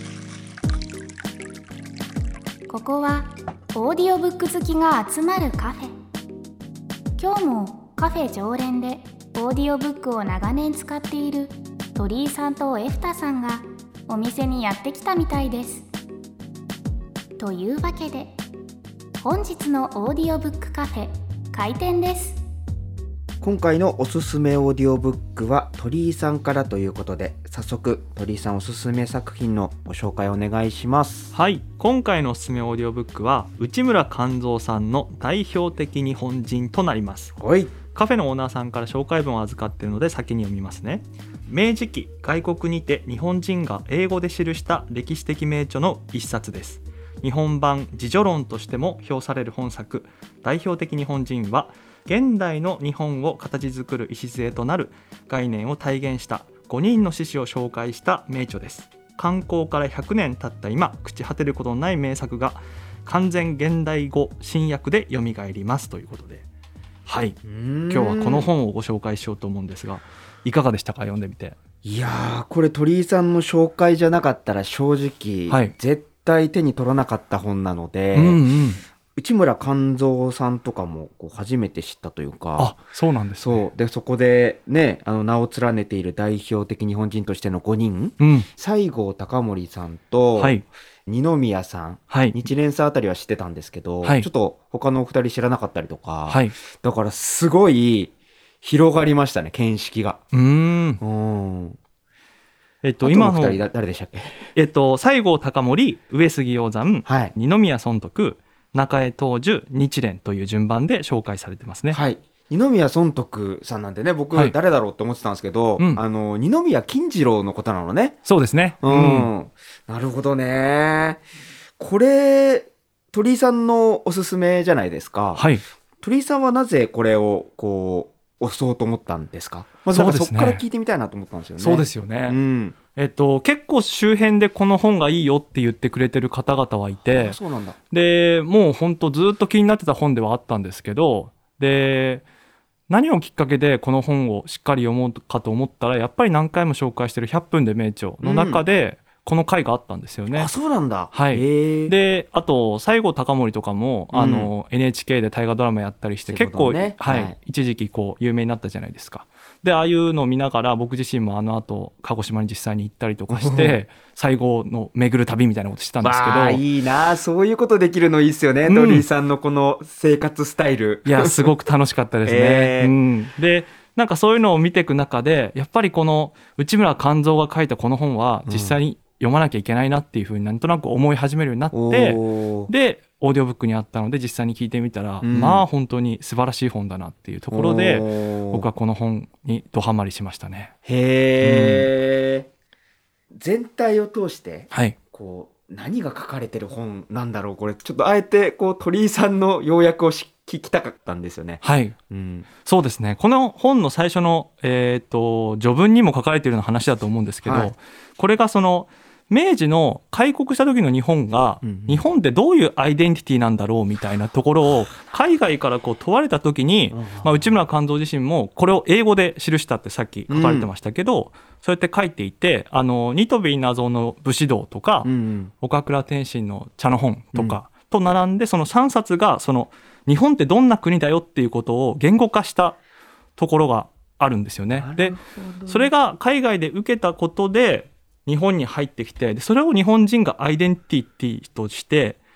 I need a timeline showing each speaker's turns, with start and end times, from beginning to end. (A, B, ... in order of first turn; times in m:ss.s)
0:02.7-0:05.9 A
0:07.2-0:15.9 A
0:17.4-0:18.3 A
0:19.2-0:22.4 A
0:23.4-0:31.3 B
0:31.3-0:37.4 C
0:37.4-0:37.8 B
0:37.9-1:06.4 C
1:07.1-1:11.6 C
1:07.4-1:08.5 B
1:11.8-1:18.4 B
1:18.1-1:18.8 C
1:19.2-1:22.7 B
1:22.6-1:23.6 C
1:23.4-1:40.2 B
1:28.2-1:28.5 C
1:30.4-1:30.6 C
1:32.1-1:32.4 C
1:36.3-1:36.6 C
1:40.3-1:41.0 C
1:41.0-1:41.8 B
1:42.8-1:43.6 C
1:43.0-1:44.5 B
1:44.6-1:52.0 C
1:47.0-1:47.3 B
1:51.9-1:58.2 B
1:58.2-1:59.3 C
1:58.8-2:01.2 B
2:01.8-2:05.5 B
2:05.3-2:05.6 C
2:06.0-2:12.8 B
2:09.9-2:10.6 C
2:11.6-2:12.4 C
2:12.9-2:17.4 C
2:17.1-2:17.8 B
2:17.9-2:22.2 C
2:22.9-2:30.5 C
2:28.2-2:28.6 B
2:30.3-2:31.9 B
2:31.1-2:46.6 C
2:34.1-2:34.5 B
2:36.3-2:37.3 B
2:43.3-2:43.8 B
2:46.0-2:51.5 B
2:48.7-2:49.1 C
2:51.0-3:10.7 C
2:52.2-2:52.9 B
2:58.4-2:58.8 B
3:01.7-3:02.7 B
3:05.2-3:05.6 B
3:07.5-3:08.7 B
3:10.8-3:12.5 B
3:11.4-3:11.9 C
3:13.3-3:22.5 B
3:14.7-3:15.0 C
3:21.6-3:22.0 C
3:22.6-3:45.1 C
3:27.4-3:27.7 B
3:31.6-3:32.0 B
3:36.9-3:37.5 B
3:40.3-3:40.7 B
3:45.0-3:45.5 B
3:45.6-3:52.8 C
3:53.4-4:02.2 C
3:54.8-3:55.9 B